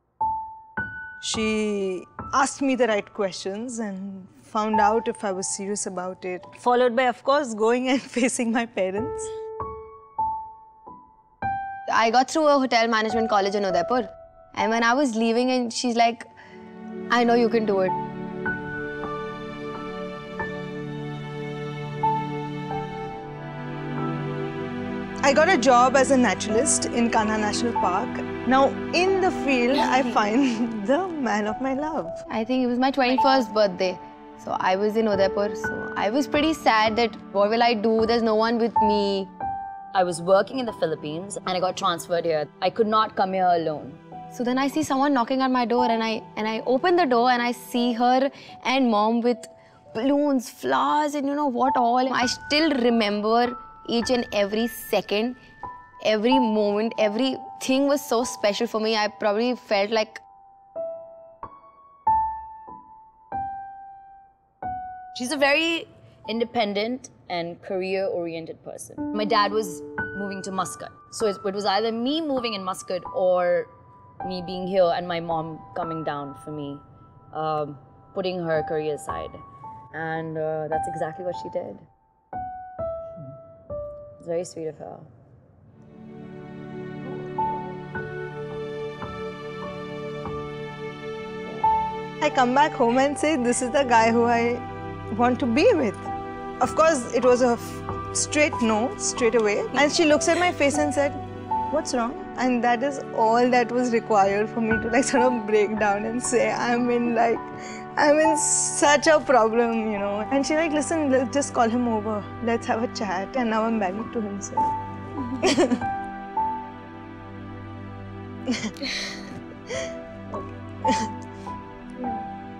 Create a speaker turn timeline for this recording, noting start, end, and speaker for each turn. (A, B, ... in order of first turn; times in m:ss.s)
0:01.2-0:09.3 A
0:11.9-0:16.2 B
0:17.1-0:18.0 B
0:25.2-0:32.2 A
0:29.8-0:30.2 B
0:32.3-0:39.3 B
0:39.9-0:44.0 C
0:44.3-0:55.4 B
0:56.0-1:00.2 B
1:05.1-1:13.7 C
1:14.2-1:21.9 C
1:24.2-1:25.1 C
1:32.2-1:41.2 A
1:41.7-1:54.7 A
1:55.3-1:55.8 A
1:58.5-1:58.9 A
2:00.8-2:01.1 A